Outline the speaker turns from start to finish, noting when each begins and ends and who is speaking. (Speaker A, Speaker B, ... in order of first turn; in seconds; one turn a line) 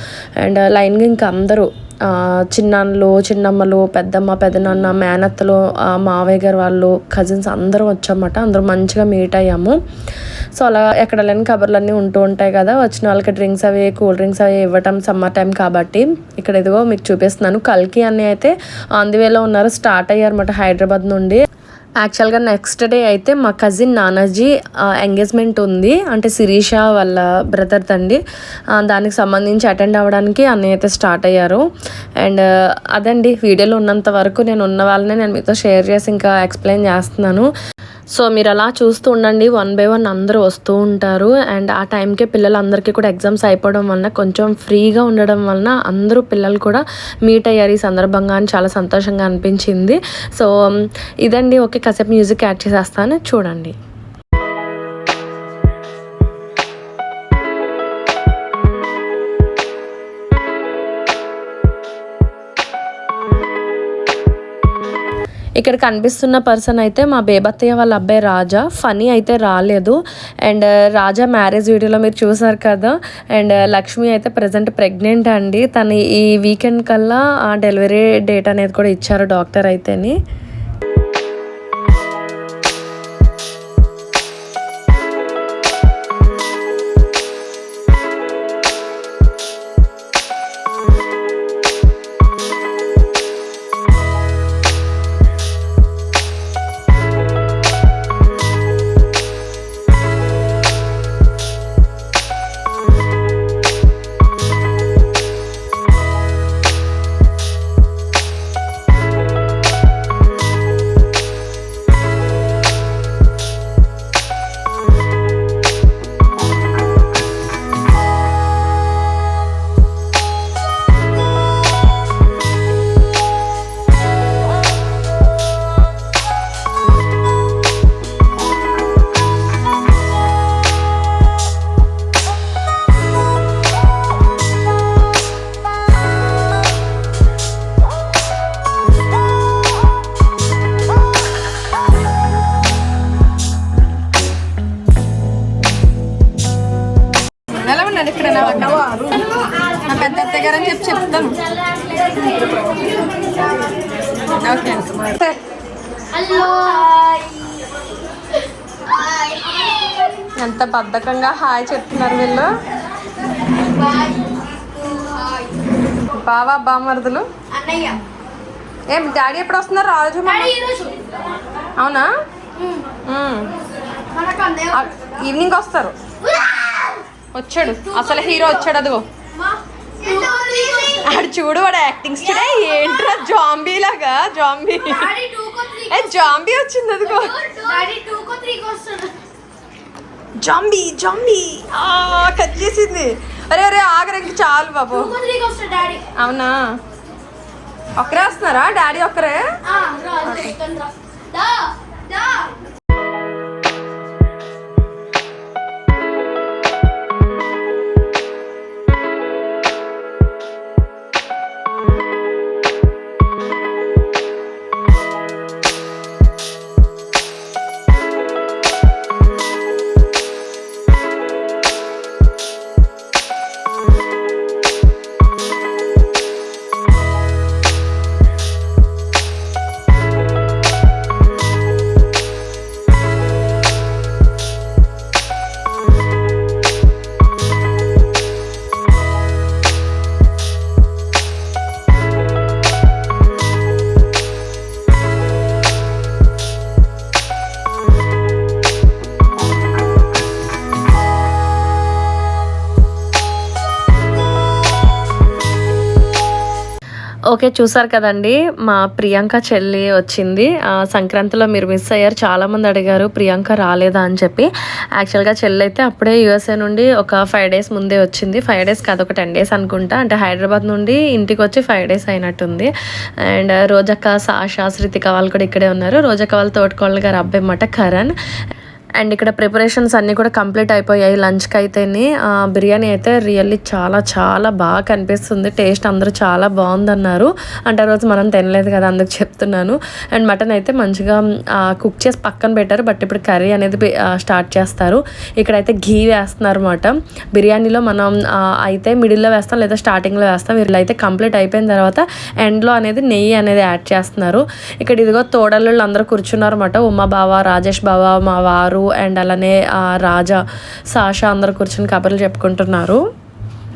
Speaker A: 0.4-9.8
Speaker A: 10.6-21.4
Speaker A: 22.0-28.2
Speaker A: 28.8-31.6
Speaker A: 32.2-37.5
Speaker A: 38.2-53.8
Speaker A: 65.6-80.2
Speaker B: 147.5-149.2
Speaker B: 149.9-151.4
Speaker B: 154.4-155.4
Speaker C: 156.1-157.6
Speaker C: 159.3-159.8
Speaker B: 160.3-162.5
Speaker C: 163.8-164.3
Speaker B: 166.1-167.3
Speaker C: 167.5-168.0
Speaker B: 168.9-170.6
Speaker C: 170.3-171.1
Speaker B: 171.8-172.1
Speaker B: 173.1-173.5
Speaker C: 174.2-174.8
Speaker B: 174.7-176.0
Speaker C: 176.3-177.0
Speaker B: 177.3-179.1
Speaker C: 177.8-178.6
Speaker C: 179.4-181.1
Speaker B: 181.0-185.1
Speaker C: 184.9-186.4
Speaker B: 185.9-187.4
Speaker C: 187.1-189.2
Speaker B: 190.4-195.1
Speaker C: 194.9-196.1
Speaker B: 196.2-196.7
Speaker B: 198.0-199.5
Speaker C: 199.7-202.5
Speaker B: 200.2-200.6
Speaker A: 257.3-272.7
Speaker A: 273.3-278.1
Speaker A: 279.0-310.4
Speaker A: 310.9-313.0